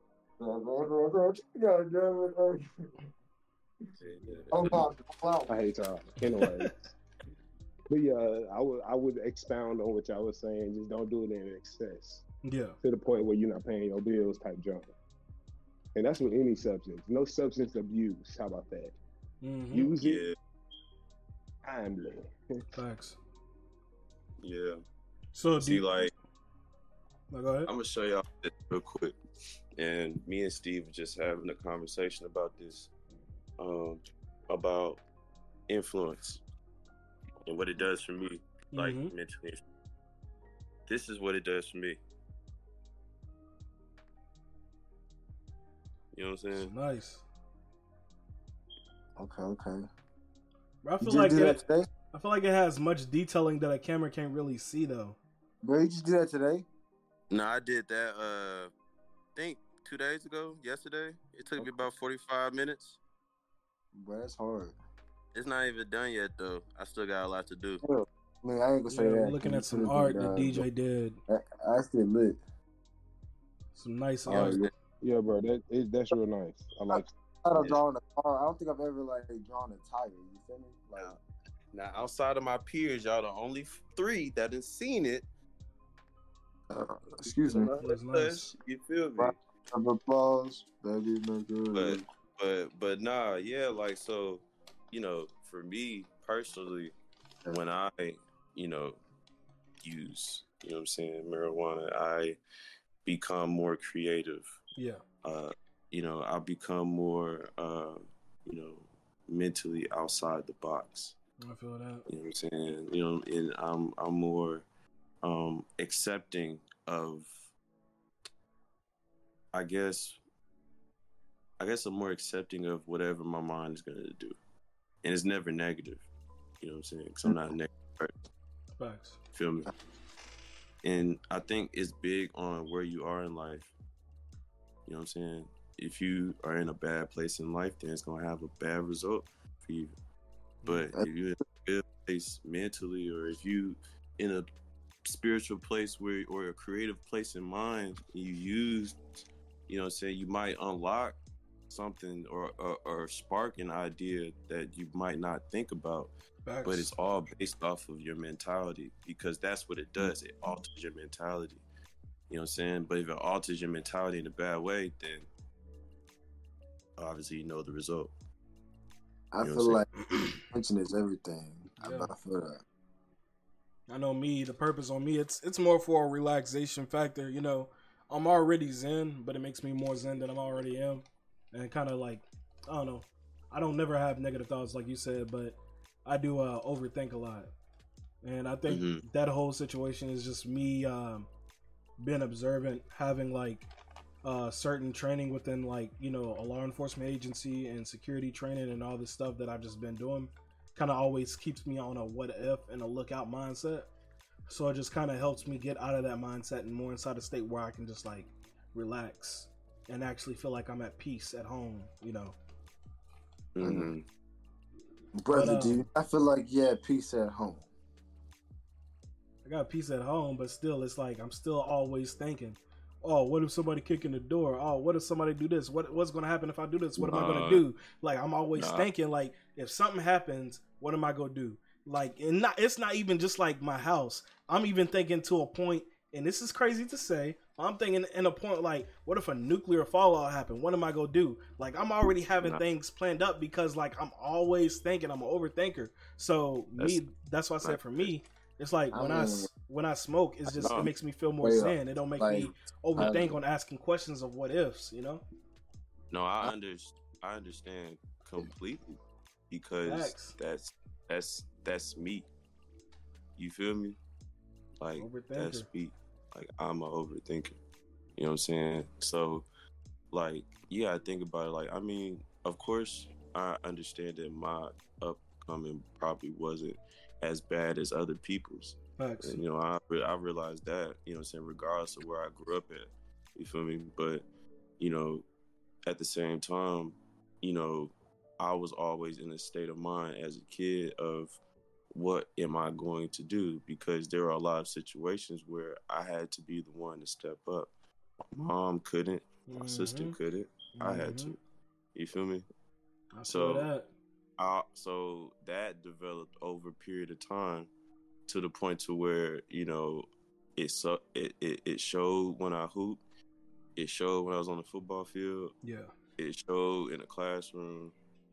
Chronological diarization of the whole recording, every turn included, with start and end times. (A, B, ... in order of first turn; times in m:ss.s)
0:00.4-0:02.6 A
0:04.0-0:04.8 B
0:04.5-0:05.5 A
0:05.5-0:06.9 C
0:07.9-0:12.2 C
0:12.4-0:12.8 D
0:12.8-0:14.9 C
0:16.0-0:19.0 C
0:19.4-0:19.9 D
0:19.7-0:20.2 C
0:20.0-0:20.4 B
0:21.6-0:22.6 C
0:22.8-0:23.2 D
0:24.4-0:24.8 B
0:25.3-0:25.8 D
0:25.6-0:26.1 B
0:27.3-0:27.7 D
0:27.7-0:29.2 B
0:29.8-0:32.9 B
0:33.6-0:35.0 B
0:35.7-0:36.4 B
0:37.5-0:39.6 B
0:38.7-0:39.1 D
0:40.9-0:42.0 B
0:46.1-0:46.7 B
0:46.6-0:47.2 D
0:49.2-0:49.8 A
0:50.8-0:51.6 D
0:51.0-0:51.9 A
0:52.1-0:55.2 D
0:55.6-0:56.7 A
0:57.3-0:58.7 B
0:59.4-1:03.0 B
1:01.6-1:01.9 A
1:03.9-1:04.8 A
1:05.3-1:07.8 B
1:07.8-1:10.7 A
1:08.9-1:11.2 D
1:11.3-1:12.4 A
1:13.8-1:14.6 D
1:14.3-1:14.7 A
1:14.3-1:14.7 B
1:15.0-1:17.1 C
1:16.9-1:21.2 A
1:21.7-1:25.3 B
1:26.7-1:27.7 A
1:27.2-1:29.4 B
1:27.8-1:28.5 D
1:29.2-1:32.0 A
1:31.7-1:36.9 B
1:37.5-1:39.0 B
1:39.8-1:42.4 B
1:43.0-1:44.5 B
1:45.2-1:51.2 B
1:51.4-1:52.0 D
1:52.1-1:54.6 B
1:55.2-1:57.5 B
1:59.5-2:00.2 B
2:01.6-2:04.4 B
2:05.0-2:06.0 B
2:06.6-2:08.1 B
2:08.8-2:09.2 D
2:09.3-2:09.7 B
2:10.8-2:13.7 B
2:14.9-2:19.9 B
2:20.7-2:24.5 B
2:25.0-2:29.0 B
2:29.7-2:31.2 B
2:31.7-2:36.1 B
2:36.4-2:36.9 D
2:36.6-2:41.6 B
2:42.3-2:45.3 B
2:47.0-2:48.1 B
2:49.3-2:49.9 A
2:49.4-2:50.2 B
2:50.5-2:52.6 A
2:51.8-2:52.1 D
2:53.9-3:07.5 D
3:08.2-3:11.3 D
3:08.7-3:09.0 B
3:12.0-3:13.7 D
3:14.2-3:23.9 D
3:24.5-3:32.4 D
3:33.6-3:34.0 B
3:33.6-3:33.9 A
3:35.2-3:37.7 A
3:35.3-3:35.8 D
3:39.4-4:15.2 D
3:47.0-3:47.6 B
3:48.5-3:48.9 B
4:07.6-4:08.1 B
4:08.9-4:09.5 A
4:10.5-4:10.9 B
4:11.4-4:13.4 A
4:16.1-4:18.9 B
4:19.5-4:22.3 B
4:19.8-4:20.4 D
4:23.4-4:24.0 B
4:24.8-4:27.6 B
4:25.0-4:25.7 D
4:28.2-4:29.5 B
4:30.1-4:44.2 B
4:39.0-4:39.4 D
4:44.8-4:45.3 B
4:45.9-4:51.4 B
4:51.9-4:57.7 B
4:58.3-5:01.4 B
4:59.5-5:00.2 D
5:00.8-5:01.4 D
5:02.0-5:02.5 B
5:03.1-5:03.9 D
5:03.3-5:03.7 B
5:04.4-5:07.7 B
5:08.3-5:13.0 B
5:13.8-5:15.5 B
5:15.6-5:15.9 D
5:16.2-5:17.9 B